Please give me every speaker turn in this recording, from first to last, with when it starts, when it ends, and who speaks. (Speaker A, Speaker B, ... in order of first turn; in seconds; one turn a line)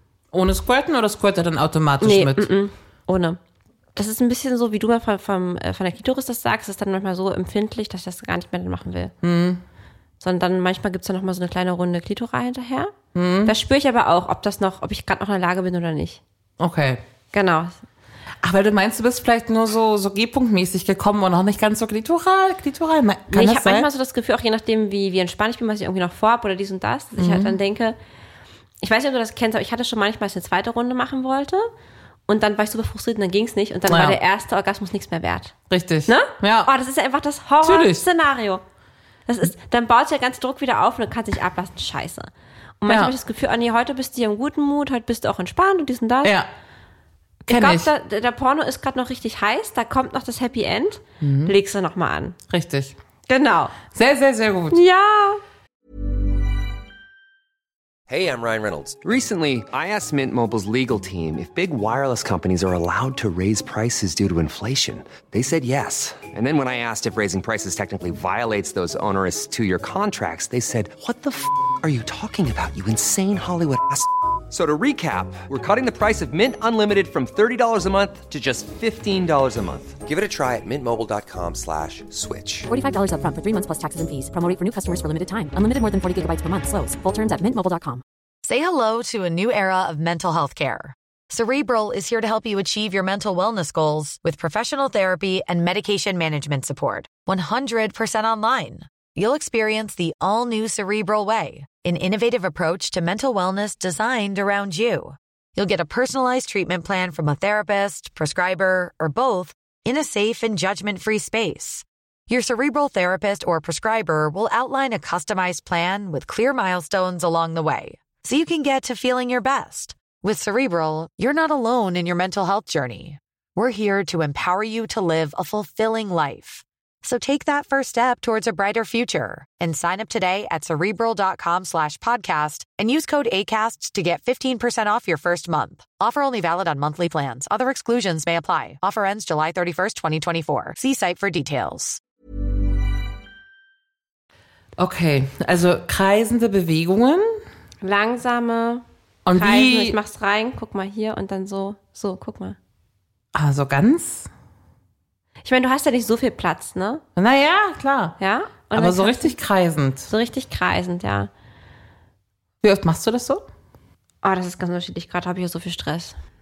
Speaker A: 0.3-2.5
Speaker B: 2.0-3.4
Speaker B: 4.0-9.1
Speaker A: 9.2-9.6
Speaker B: 10.2-12.9
Speaker A: 13.2-13.5
Speaker B: 13.5-16.2
Speaker A: 16.6-17.0
Speaker B: 17.3-17.8
Speaker A: 18.4-23.9
Speaker B: 23.3-28.0
Speaker A: 27.2-27.6
Speaker B: 28.8-31.7
Speaker B: 32.3-35.5
Speaker A: 33.9-34.2
Speaker A: 35.7-36.7
Speaker B: 36.1-38.6
Speaker A: 37.6-38.1
Speaker B: 39.3-46.4
Speaker A: 42.9-43.1
Speaker A: 46.2-46.5
Speaker A: 47.5-47.9
Speaker B: 47.5-52.4
Speaker A: 51.2-51.5
Speaker A: 52.5-53.0
Speaker B: 53.3-53.8
Speaker A: 53.9-54.8
Speaker B: 54.7-55.4
Speaker C: 58.1-82.7
Speaker D: 82.7-88.0
Speaker E: 88.4-142.0
Speaker A: 144.8-147.4
Speaker B: 147.8-152.6
Speaker A: 149.3-150.0
Speaker A: 153.3-154.3
Speaker B: 155.4-157.0
Speaker A: 157.2-158.2
Speaker B: 158.2-159.4
Speaker A: 158.7-160.1
Speaker B: 160.1-161.3
Speaker A: 162.6-163.4
Speaker B: 164.2-166.2